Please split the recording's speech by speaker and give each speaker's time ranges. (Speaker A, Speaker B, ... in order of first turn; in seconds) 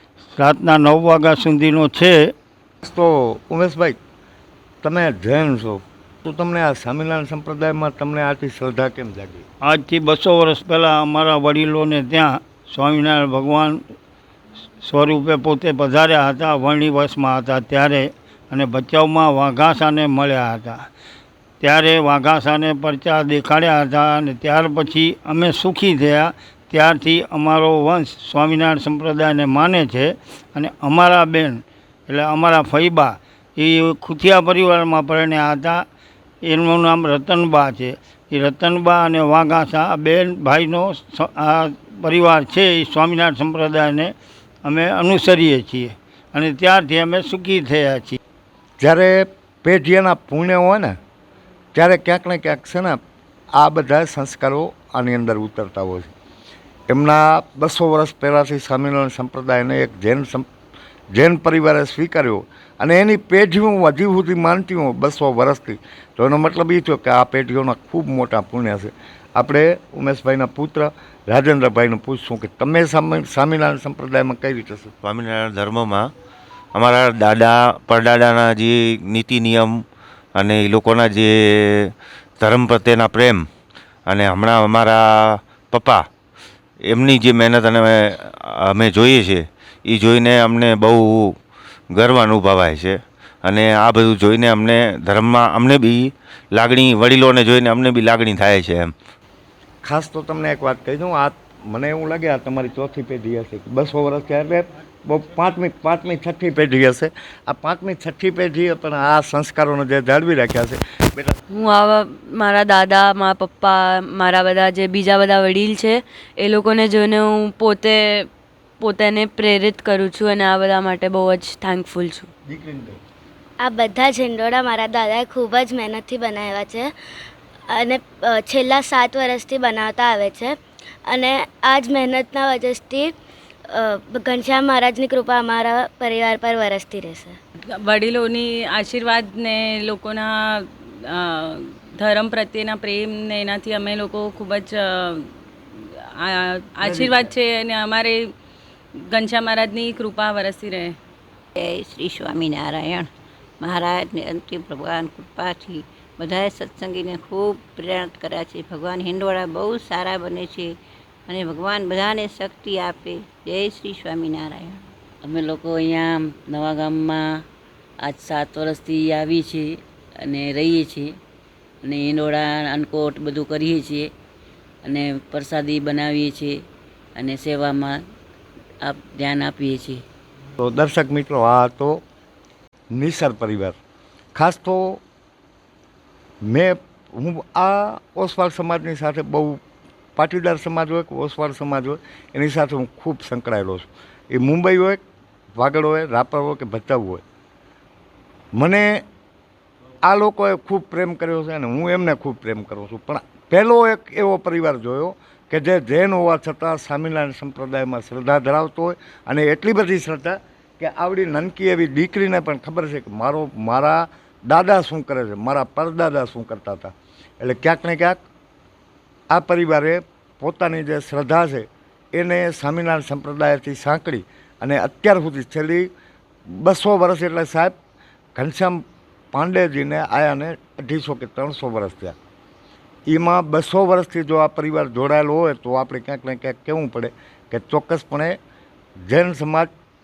Speaker A: 0.4-2.3, 9.6-13.8, 14.8-20.9, 21.6-35.8, 36.4-44.1, 44.6-48.2
Speaker B: 2.8-4.0, 4.8-9.4, 48.8-51.0, 51.7-53.0, 53.5-56.1, 56.9-60.5, 61.1-74.9, 99.8-111.4, 122.5-123.0, 146.9-147.1, 180.6-182.0, 182.9-183.8, 184.3-185.0, 186.4-189.6, 190.2-195.0, 195.6-197.2, 198.5-199.0, 200.0-218.2, 219.3-225.9, 226.5-227.7, 228.3-228.8, 229.3-232.1, 233.1-238.4, 239.1-239.7
Speaker C: 75.0-76.1, 76.7-79.7, 80.3-83.4, 84.1-85.0, 85.7-86.0, 86.9-91.3, 91.9-98.9
Speaker D: 111.5-118.3, 118.8-122.3
Speaker E: 123.6-126.9, 127.7-133.1, 133.7-137.4
Speaker F: 137.7-148.3, 148.9-151.0
Speaker G: 151.6-153.1, 153.6-160.7, 161.3-164.8
Speaker H: 165.2-167.4, 168.0-169.7, 170.2-171.1, 171.8-174.1, 174.8-176.6, 177.2-178.0, 178.8-180.0